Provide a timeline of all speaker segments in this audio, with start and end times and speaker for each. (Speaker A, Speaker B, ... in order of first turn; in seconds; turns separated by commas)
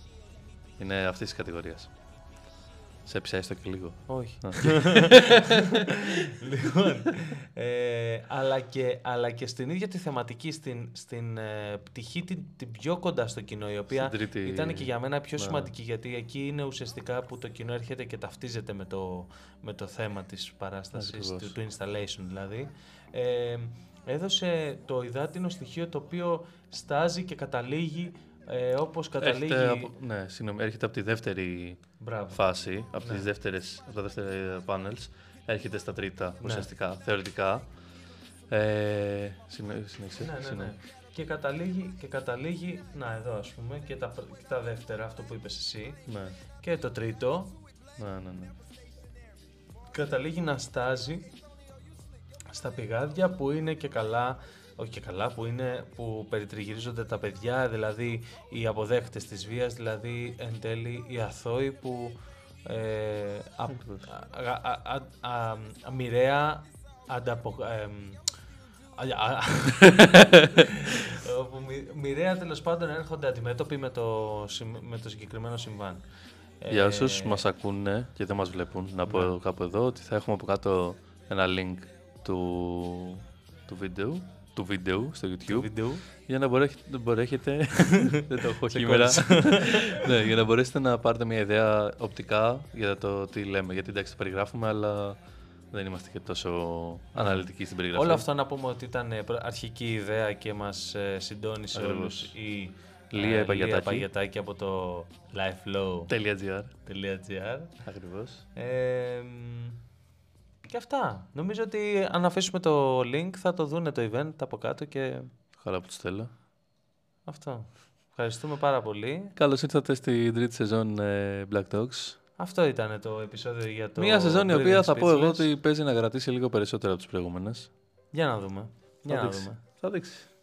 Speaker A: 0.8-1.9, Speaker A: 3.1-6.3, Speaker B: 4.1-29.9, Speaker A: 13.9-15.7, Speaker A: 20.9-21.6, Speaker A: 29.2-37.7, Speaker B: 32.0-32.4, Speaker B: 33.0-33.3, Speaker B: 36.4-36.7, Speaker A: 38.5-40.8, Speaker B: 40.2-46.0, Speaker A: 46.1-46.4, Speaker B: 46.6-47.6, Speaker A: 48.0-48.5, Speaker B: 49.9-51.3, Speaker B: 52.5-68.2, Speaker A: 63.7-64.1, Speaker B: 69.0-76.0, Speaker A: 69.8-70.6, Speaker B: 76.6-77.4, Speaker A: 76.7-95.2, Speaker B: 79.0-79.3, Speaker B: 85.5-86.0, Speaker B: 88.0-90.2, Speaker A: 95.7-98.3, Speaker B: 97.2-106.1, Speaker A: 101.7-102.4, Speaker A: 103.1-104.1, Speaker A: 106.1-106.7, Speaker B: 106.8-107.7, Speaker A: 107.8-108.5, Speaker B: 108.6-109.8, Speaker B: 110.7-115.3, Speaker A: 115.6-116.3, Speaker B: 117.3-119.3, Speaker A: 119.4-122.2, Speaker B: 122.4-125.5, Speaker A: 124.0-127.7, Speaker B: 128.1-129.6, Speaker A: 129.1-130.3